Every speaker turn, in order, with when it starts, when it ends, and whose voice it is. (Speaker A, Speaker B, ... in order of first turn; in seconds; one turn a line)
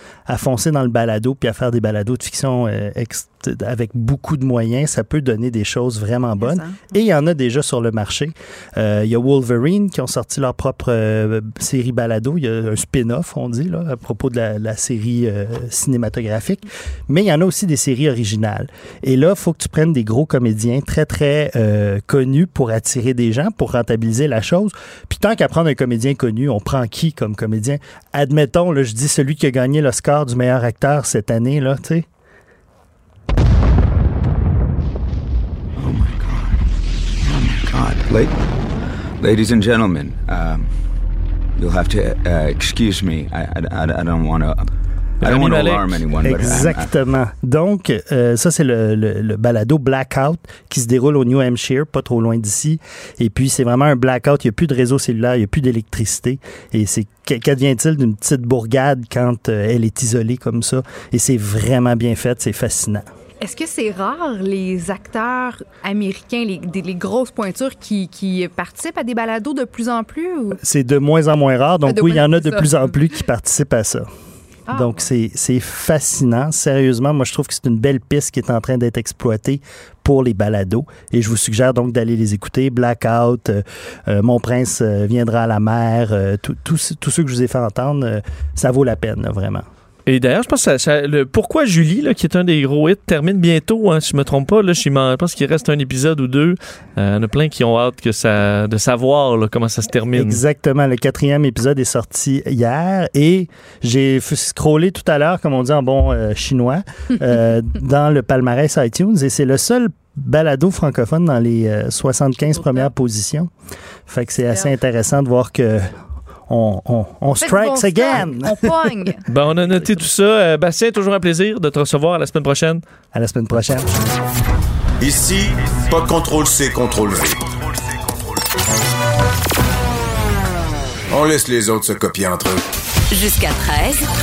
Speaker A: 0.3-32.0
Speaker B: 6.4-6.8
Speaker C: 35.8-36.6
Speaker C: 37.2-38.4
Speaker C: 39.2-41.0
Speaker C: 41.5-46.9
Speaker D: 45.2-46.0
Speaker A: 46.2-63.0
Speaker B: 63.4-70.6
Speaker A: 70.6-74.1
Speaker B: 71.8-72.8
Speaker B: 74.7-75.0
Speaker A: 74.7-89.6
Speaker D: 90.0-100.4
Speaker A: 100.1-113.5
Speaker A: 114.1-118.7
Speaker B: 117.4-119.2
Speaker D: 119.3-122.8
Speaker A: 123.1-123.9
Speaker E: 125.0-127.4
Speaker E: 131.1-132.6